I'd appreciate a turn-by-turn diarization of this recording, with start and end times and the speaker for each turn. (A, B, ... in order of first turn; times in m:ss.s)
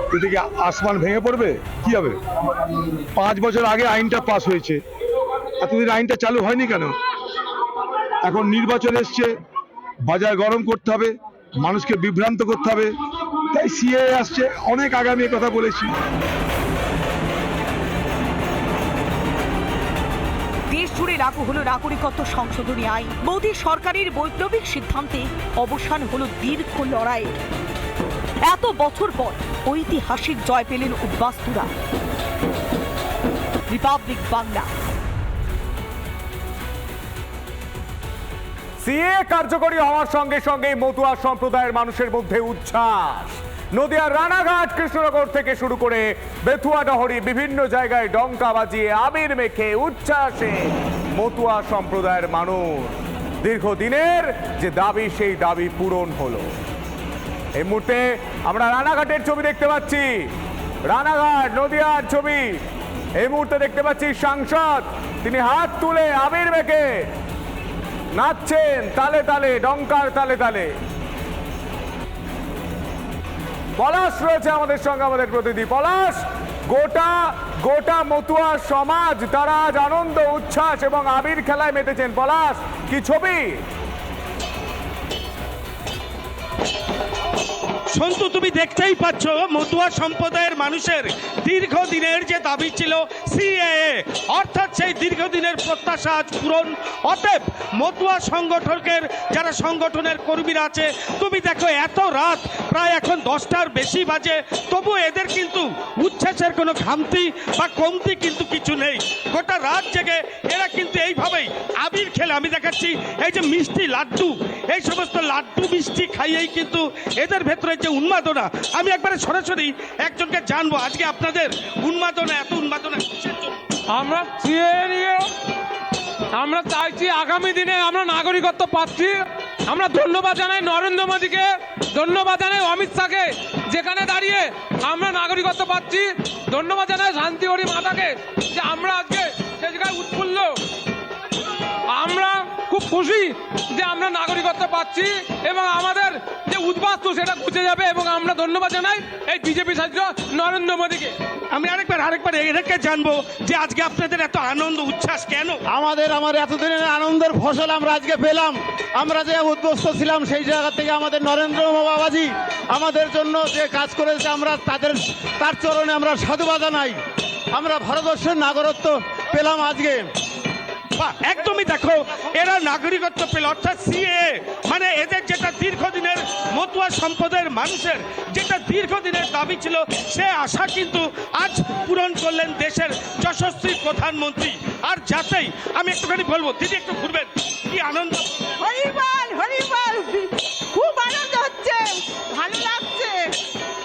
0:00.1-0:02.2 A
0:03.2-0:04.8 A
0:05.6-0:06.9 A
0:08.2-0:09.3 A
0:10.1-0:12.9 A
0:13.5-0:16.0 A
0:20.7-0:27.4 B
0:28.4-0:31.7 B
0:33.7-0:34.7 B
0:38.8-0:56.5 C
0:57.6-1:00.3 C
1:00.9-1:02.6 C
1:03.2-1:06.9 C
1:08.2-1:10.7 C
1:13.8-1:23.6 C
1:27.9-2:03.6 D
2:03.9-2:05.3 E
2:06.3-2:20.6 E
2:21.9-2:31.1 E
2:31.5-2:35.6 D
2:35.8-2:47.0 F
2:47.6-2:50.0 F
2:51.0-3:08.3 D
3:08.6-3:13.3 G